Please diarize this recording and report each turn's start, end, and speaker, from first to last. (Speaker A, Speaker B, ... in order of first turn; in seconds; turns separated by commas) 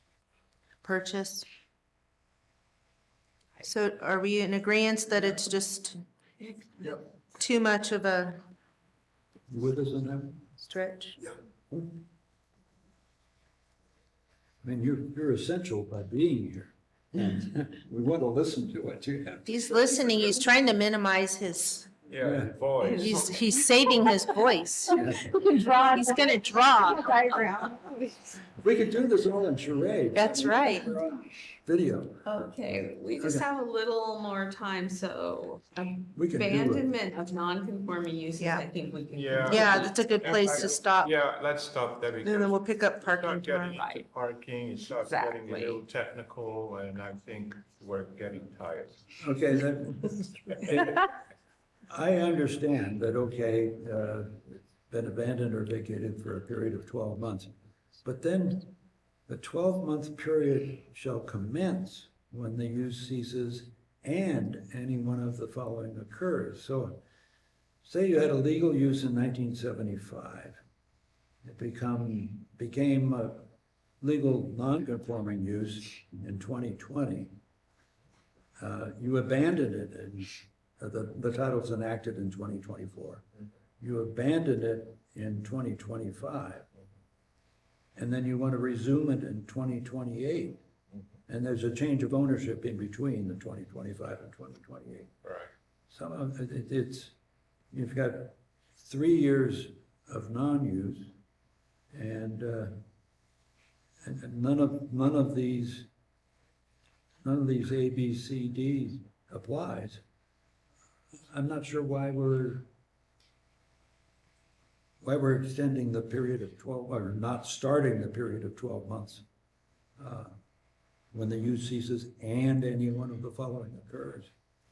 Speaker A: 0.8-1.4, Speaker A: 3.6-6.0, Speaker A: 7.4-8.4, Speaker B: 9.5-10.4, Speaker A: 10.6-11.2, Speaker B: 11.7-12.0, Speaker B: 14.6-19.4, Speaker A: 19.4-21.9, Speaker C: 22.1-23.1, Speaker B: 22.2-22.6, Speaker D: 22.8-24.3, Speaker A: 22.9-25.0, Speaker B: 24.9-25.3, Speaker D: 25.2-26.1, Speaker A: 25.5-27.2, Speaker D: 27.1-28.4, Speaker B: 28.6-32.2, Speaker A: 30.1-30.9, Speaker D: 32.2-40.6, Speaker B: 33.2-33.4, Speaker B: 36.1-36.9, Speaker A: 38.4-38.6, Speaker C: 39.1-49.0, Speaker A: 39.4-41.1, Speaker A: 42.2-43.8, Speaker D: 43.8-44.0, Speaker D: 45.0-45.8, Speaker B: 49.2-51.0, Speaker B: 51.9-57.5, Speaker B: 58.0-58.7, Speaker B: 59.3-67.0, Speaker B: 67.8-70.6, Speaker B: 71.4-77.3, Speaker B: 78.6-83.2, Speaker B: 83.8-86.7, Speaker B: 88.0-90.6, Speaker B: 91.3-95.1, Speaker C: 95.2-95.5, Speaker B: 95.9-97.1, Speaker B: 97.7-101.1, Speaker B: 101.9-102.7, Speaker B: 104.0-105.9, Speaker B: 107.2-110.0, Speaker B: 111.3-112.7, Speaker B: 115.0-119.2, Speaker B: 120.0-120.3, Speaker B: 121.1-124.3